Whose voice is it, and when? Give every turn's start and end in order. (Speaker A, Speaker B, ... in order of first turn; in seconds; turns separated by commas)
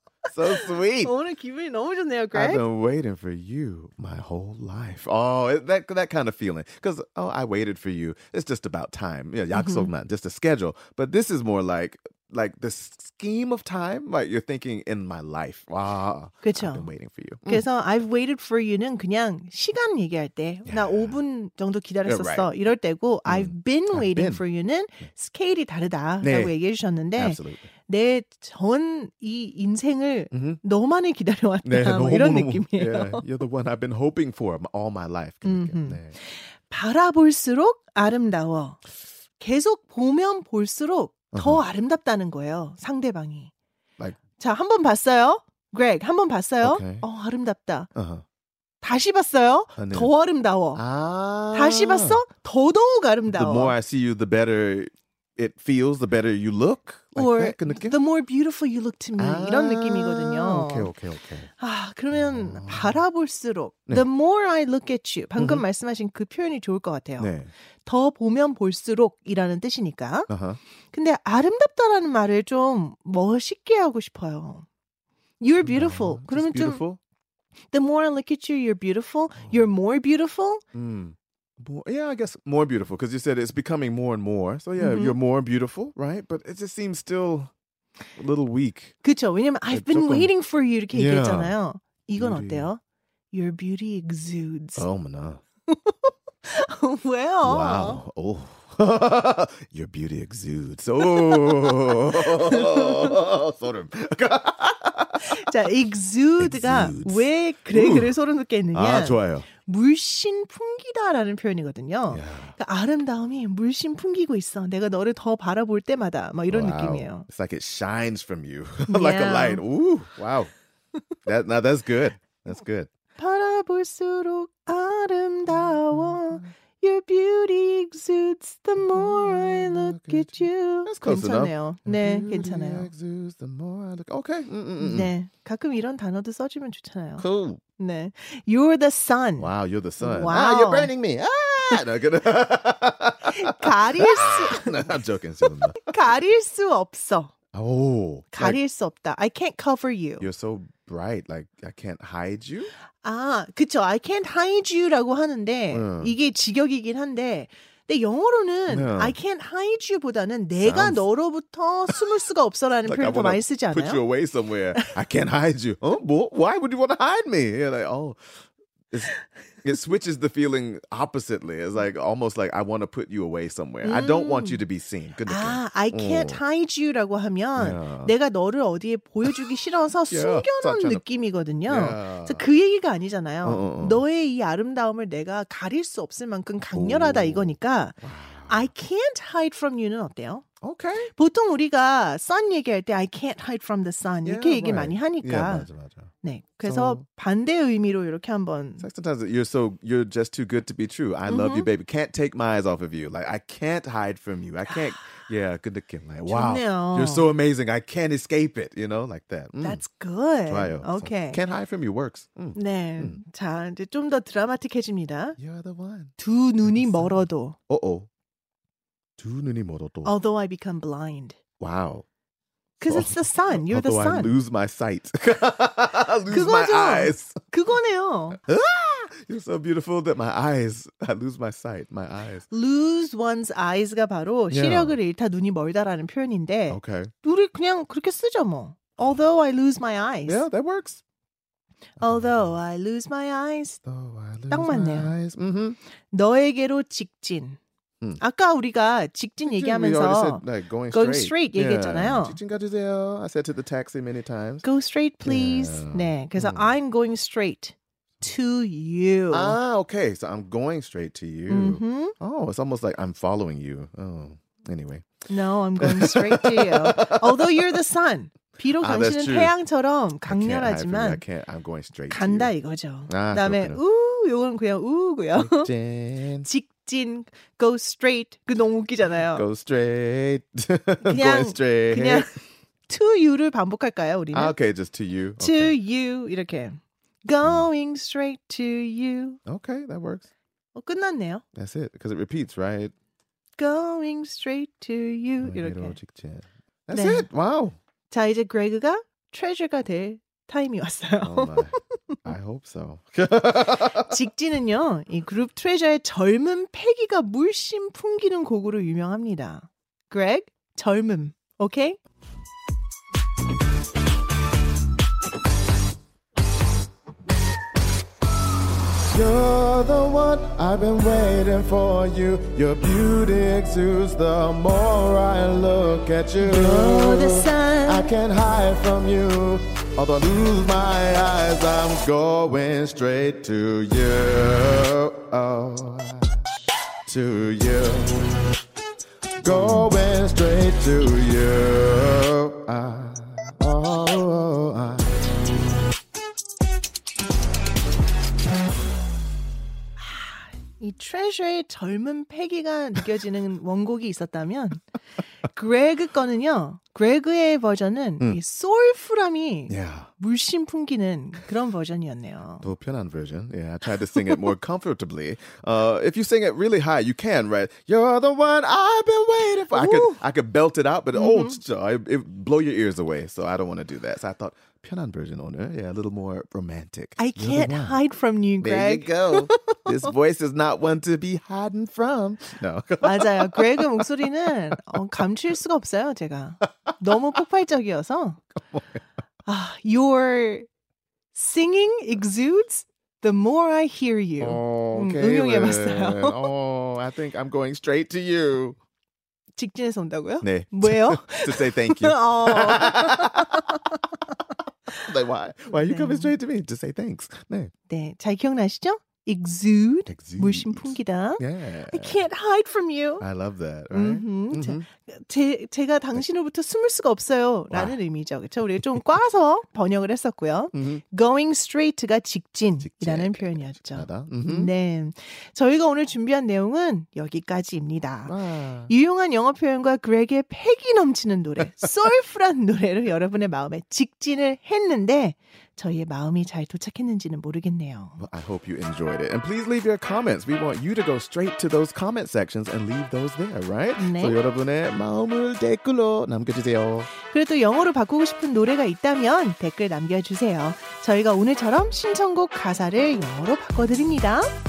Speaker A: 0.3-1.1, Speaker B: 0.5-2.6, Speaker A: 2.3-17.6, Speaker B: 9.5-9.9, Speaker B: 16.4-16.9, Speaker B: 17.4-33.2, Speaker A: 20.6-21.2, Speaker A: 22.1-22.5, Speaker A: 23.2-24.4, Speaker A: 26.2-26.5, Speaker A: 27.1-27.7, Speaker A: 30.3-30.6, Speaker A: 31.6-36.1, Speaker B: 35.4-38.8, Speaker B: 39.4-43.5, Speaker A: 41.3-41.6, Speaker B: 44.4-47.9, Speaker A: 46.6-47.0, Speaker A: 47.9-48.2, Speaker B: 48.8-50.8, Speaker A: 49.8-50.1, Speaker A: 50.7-52.2, Speaker B: 51.5-53.8, Speaker A: 53.3-58.0, Speaker B: 57.1-60.9, Speaker A: 59.2-61.5, Speaker B: 61.6-67.3, Speaker A: 62.1-63.0, Speaker A: 65.4-65.6, Speaker A: 67.2-67.5, Speaker B: 67.8-70.3, Speaker A: 70.3-70.6, Speaker B: 70.9-74.7, Speaker B: 75.4-76.8, Speaker A: 75.6-77.0, Speaker B: 77.7-80.6, Speaker A: 80.7-87.5, Speaker B: 84.8-85.2, Speaker A: 88.2-89.0, Speaker B: 89.0-94.8, Speaker A: 89.7-90.3, Speaker A: 90.9-91.5, Speaker A: 92.2-92.7, Speaker A: 94.8-95.4, Speaker B: 95.7-98.0, Speaker A: 97.4-105.5, Speaker B: 101.0-103.2, Speaker B: 105.2-117.3, Speaker A: 106.4-108.1, Speaker A: 108.7-109.5, Speaker A: 112.1-112.5, Speaker A: 116.5-120.5, Speaker B: 118.9-119.6, Speaker A: 121.2-122.9, Speaker B: 123.2-132.9, Speaker A: 125.5-126.5, Speaker A: 128.8-135.1, Speaker B: 134.8-137.2, Speaker A: 137.2-137.6, Speaker B: 137.8-140.9, Speaker A: 139.4-145.8, Speaker B: 143.3-147.3, Speaker A: 147.5-148.6, Speaker B: 148.3-150.3, Speaker A: 150.2-152.7, Speaker B: 153.0-164.1, Speaker A: 155.7-156.1, Speaker A: 158.7-159.2, Speaker A: 160.6-161.1, Speaker A: 162.8-168.2, Speaker A: 168.9-176.4, Speaker B: 173.8-174.6, Speaker B: 175.2-188.0, Speaker A: 177.6-178.1, Speaker A: 180.1-181.0, Speaker A: 181.7-182.5, Speaker A: 183.4-184.0, Speaker A: 186.7-188.7, Speaker B: 188.5-190.4, Speaker A: 190.6-191.1, Speaker B: 191.1-195.7, Speaker A: 194.2-196.1, Speaker B: 196.2-198.8, Speaker A: 196.6-197.0, Speaker A: 198.8-209.8, Speaker B: 201.3-201.7, Speaker B: 204.7-205.0, Speaker B: 206.2-207.3, Speaker B: 209.6-211.4, Speaker A: 210.5-213.2, Speaker B: 212.5-215.4, Speaker A: 215.4-218.1, Speaker B: 216.2-217.6, Speaker A: 219.2-220.1, Speaker B: 220.0-221.4, Speaker A: 221.6-222.1, Speaker B: 222.8-224.3, Speaker A: 222.8-227.4, Speaker B: 226.3-228.4, Speaker A: 228.4-232.5, Speaker B: 232.5-240.4, Speaker A: 234.5-234.9, Speaker A: 236.7-237.1, Speaker A: 240.2-241.0, Speaker B: 242.0-243.8, Speaker A: 242.0-242.5, Speaker A: 243.8-245.8, Speaker B: 244.5-245.2, Speaker B: 246.1-247.6, Speaker B: 248.2-252.4, Speaker A: 249.5-254.6, Speaker B: 254.6-259.6, Speaker A: 255.2-256.7, Speaker A: 259.3-265.1, Speaker B: 261.5-262.1, Speaker B: 265.3-271.2, Speaker A: 265.8-267.8, Speaker A: 268.7-269.6, Speaker A: 270.2-272.5, Speaker B: 272.1-275.7, Speaker A: 273.1-273.8, Speaker A: 275.4-276.5, Speaker B: 276.4-279.4, Speaker A: 279.3-282.3, Speaker B: 281.0-282.4, Speaker B: 282.9-284.6, Speaker A: 284.3-285.7, Speaker B: 285.4-289.4, Speaker A: 287.4-287.7, Speaker A: 289.4-290.3, Speaker B: 290.7-291.4, Speaker A: 291.5-292.9, Speaker B: 293.6-296.0, Speaker A: 295.4-297.8, Speaker B: 296.9-297.3, Speaker B: 298.1-302.3, Speaker A: 301.2-304.2, Speaker B: 303.7-312.0, Speaker A: 319.0-336.4, Speaker B: 326.4-328.1, Speaker A: 337.1-338.5, Speaker A: 339.4-345.2, Speaker B: 350.0-354.9, Speaker B: 355.4-362.6, Speaker A: 359.7-360.1, Speaker A: 362.6-378.0, Speaker B: 369.7-370.2, Speaker B: 371.1-371.6, Speaker B: 377.2-379.8, Speaker A: 378.6-384.8, Speaker B: 383.0-388.4, Speaker A: 388.6-389.0, Speaker B: 389.4-390.7, Speaker B: 391.3-396.5, Speaker A: 394.4-398.8, Speaker B: 399.6-404.1, Speaker A: 400.4-403.8, Speaker A: 404.9-407.7, Speaker B: 405.8-406.3, Speaker B: 407.9-413.2, Speaker A: 410.1-412.2, Speaker A: 413.2-414.8, Speaker B: 413.9-428.4, Speaker A: 417.7-418.0, Speaker A: 420.7-421.0, Speaker A: 422.8-424.7, Speaker A: 428.3-428.9, Speaker B: 428.9-438.2, Speaker A: 438.2-447.1, Speaker B: 444.0-444.4, Speaker B: 447.1-454.5